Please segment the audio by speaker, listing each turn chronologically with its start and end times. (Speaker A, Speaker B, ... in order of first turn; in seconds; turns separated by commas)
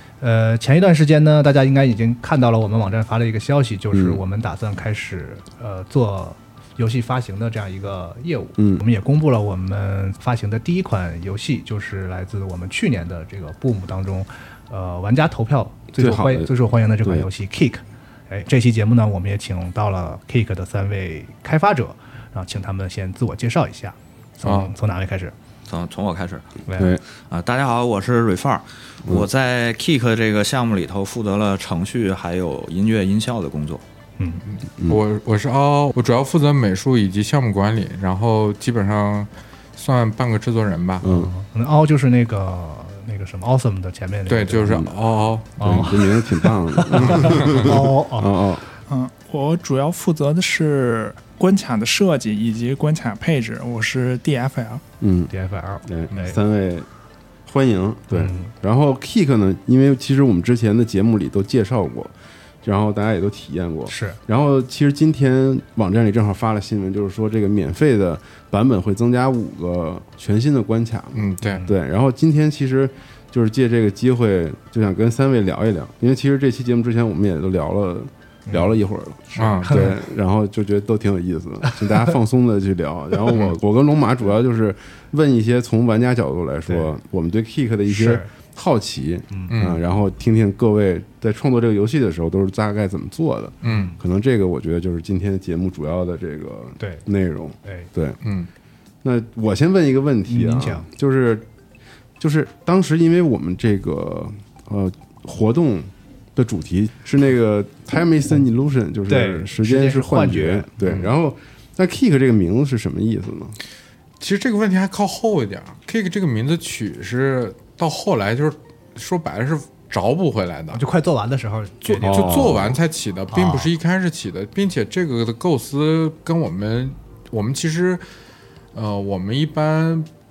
Speaker A: 0.2-25.3, Speaker B: 3.9-4.2, Speaker B: 8.6-8.8, Speaker B: 16.0-17.3, Speaker C: 24.4-24.7, Speaker D: 25.7-26.5, Speaker A: 26.7-26.9, Speaker B: 26.8-27.0, Speaker D: 27.1-33.8, Speaker A: 34.2-34.4, Speaker C: 34.5-41.1, Speaker B: 41.0-41.3, Speaker A: 41.0-44.9, Speaker C: 44.3-45.9, Speaker B: 44.6-44.9, Speaker A: 45.6-48.3, Speaker B: 45.6-48.7, Speaker C: 47.1-47.7, Speaker E: 48.9-54.8, Speaker B: 55.0-55.3, Speaker A: 55.3-56.4, Speaker B: 55.9-56.9, Speaker B: 57.5-98.2, Speaker A: 58.1-58.5, Speaker A: 63.9-64.2, Speaker C: 71.1-71.6, Speaker A: 71.4-71.8, Speaker A: 78.5-78.8, Speaker A: 79.3-80.0, Speaker C: 79.3-79.9, Speaker A: 81.7-82.1, Speaker A: 87.9-88.3, Speaker A: 89.3-89.6, Speaker C: 89.5-89.8, Speaker C: 93.6-93.9, Speaker A: 93.7-94.0, Speaker A: 96.8-97.0, Speaker A: 97.6-97.9, Speaker C: 98.2-98.5, Speaker B: 99.0-101.5, Speaker A: 100.3-100.9, Speaker B: 102.2-113.6, Speaker A: 109.1-110.8, Speaker C: 110.8-111.1, Speaker C: 114.2-120.8, Speaker A: 120.7-122.7, Speaker C: 121.8-128.0, Speaker B: 122.0-122.8, Speaker A: 123.3-123.7, Speaker C: 128.7-130.1